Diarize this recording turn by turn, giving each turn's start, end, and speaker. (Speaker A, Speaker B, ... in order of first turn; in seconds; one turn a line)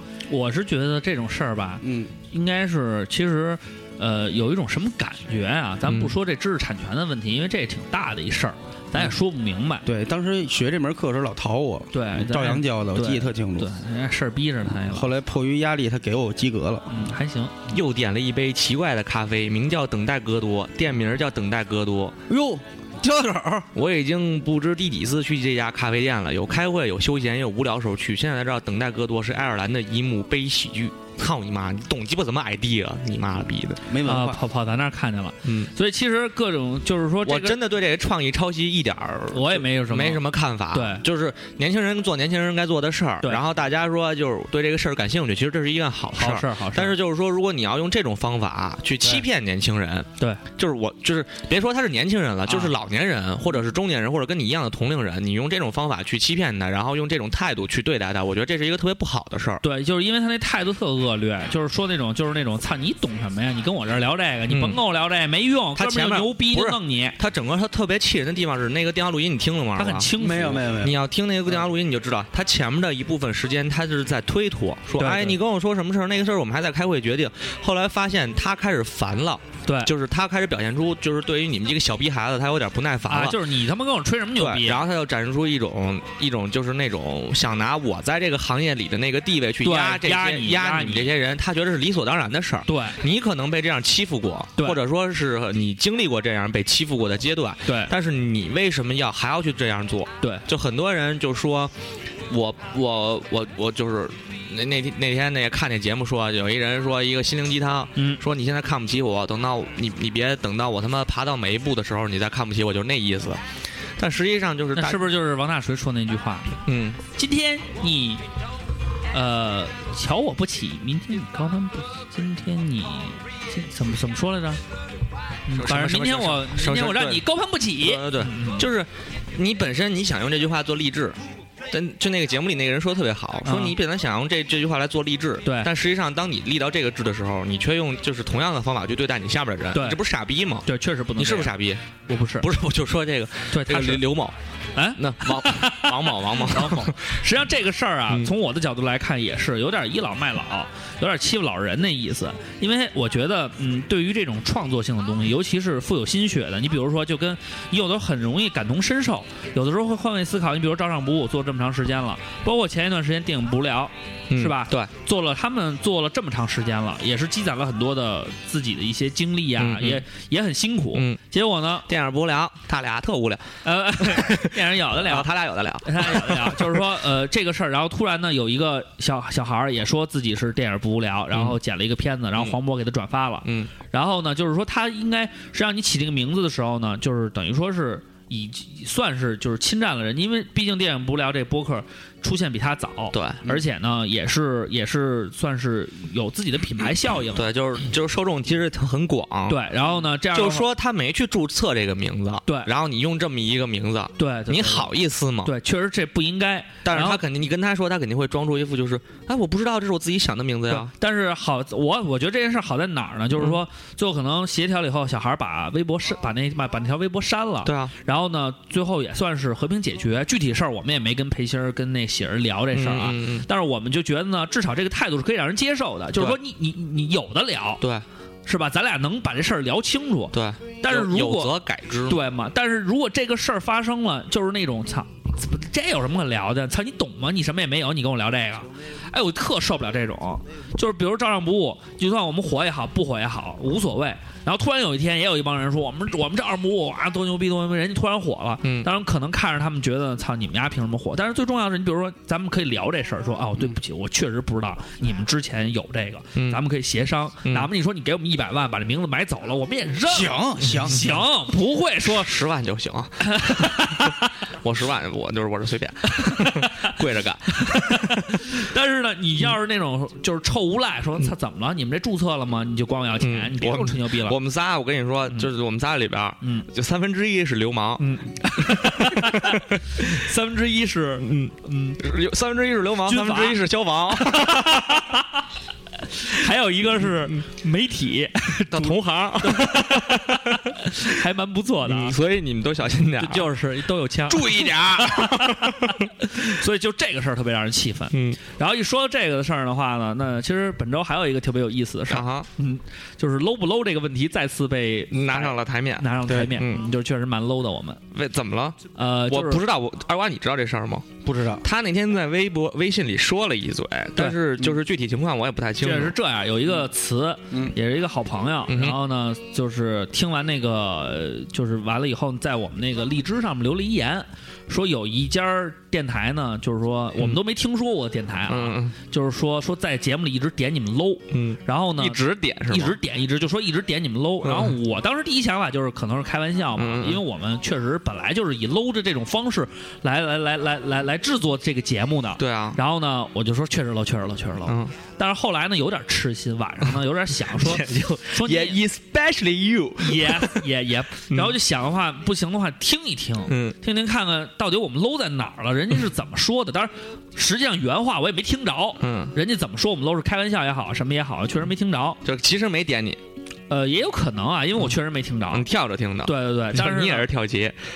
Speaker A: 0.3-9.8
Speaker B: 1.8-2.1
Speaker C: 5.9-6.1
Speaker B: 9.8-13.7
Speaker A: 11.9-15.1
Speaker B: 14.9-17.0
Speaker A: 16.9-17.7
Speaker C: 17.7-22.2
Speaker B: 22.3-23.7
Speaker C: 23.7-33.8
Speaker B: 33.8-34.4
Speaker A: 34.0-37.6
Speaker C: 35.4-35.7
Speaker C: 37.2-59.6
Speaker A: 39.3-41.0
Speaker A: 46.1-46.9
Speaker A: 52.5-52.7
Speaker A: 59.6-67.2
Speaker C: 64.5-64.8
Speaker C: 65.8-83.4
Speaker A: 69.8-70.6
Speaker B: 70.2-71.0
Speaker A: 75.0-75.4
Speaker A: 79.7-79.9
Speaker A: 83.1-84.8
Speaker C: 84.4-101.7
Speaker A: 89.6-91.1
Speaker A: 92.7-93.0
Speaker A: 97.7-97.9
Speaker C: 102.3-113.4
Speaker A: 108.0-108.2
Speaker C: 114.0-115.0
Speaker A: 114.7-116.6
Speaker C: 116.7-117.0
Speaker A: 117.1-118.2
Speaker A: 119.1-124.6
Speaker A: 125.5-128.7
Speaker C: 125.5-127.2
Speaker C: 127.8-131.2
Speaker C: 131.7-140.7
Speaker A: 133.4-133.8
Speaker A: 135.4-135.7
Speaker A: 139.7-140.0
Speaker A: 140.7-141.5
Speaker C: 141.2-141.8
Speaker A: 142.1-142.5
Speaker C: 142.4-144.3
Speaker A: 143.5-144.1
Speaker A: 144.8-171.9
Speaker C: 144.9-147.2
Speaker C: 164.3-164.9
Speaker C: 169.6-170.0
Speaker C: 171.9-176.8
Speaker A: 173.6-175.3
Speaker A: 175.8-197.5
Speaker C: 181.3-181.6
Speaker C: 183.4-183.7
Speaker C: 193.1-193.6
Speaker C: 197.3-199.6
Speaker A: 199.5-200.7
Speaker C: 200.3-205.5
Speaker A: 204.2-204.9
Speaker A: 205.4-207.2
Speaker C: 206.8-210.9
Speaker A: 210.7-227.8
Speaker C: 217.6-217.9
Speaker C: 222.7-223.4
Speaker A: 228.4-231.5
Speaker C: 230.3-232.2
Speaker A: 232.1-262.3
Speaker C: 256.4-256.6
Speaker B: 260.1-261.1
Speaker C: 262.0-268.2
Speaker A: 263.2-264.3
Speaker A: 266.1-266.9
Speaker A: 267.5-274.4
Speaker C: 273.2-278.0
Speaker A: 276.4-276.7
Speaker A: 278.0-282.0
Speaker C: 278.6-280.1
Speaker C: 281.2-285.0
Speaker A: 283.1-283.6
Speaker A: 284.1-285.4
Speaker A: 286.1-292.1
Speaker C: 288.7-290.7
Speaker C: 291.9-293.5
Speaker A: 293.2-308.0
Speaker C: 294.3-296.0
Speaker C: 298.1-298.4
Speaker C: 302.1-302.5
Speaker C: 305.1-306.8
Speaker C: 308.1-316.1
Speaker A: 308.9-309.6
Speaker B: 311.2-311.6
Speaker A: 315.8-348.8
Speaker C: 318.7-319.0
Speaker C: 328.5-328.9
Speaker C: 331.3-333.0
Speaker C: 334.4-334.8
Speaker C: 336.8-337.2
Speaker C: 342.4-342.8
Speaker C: 344.7-344.9
Speaker C: 347.4-350.6
Speaker A: 350.0-362.2
Speaker C: 353.5-353.7
Speaker C: 359.0-359.3
Speaker C: 362.2-363.2
Speaker A: 363.7-365.6
Speaker C: 365.5-367.8
Speaker A: 366.2-367.3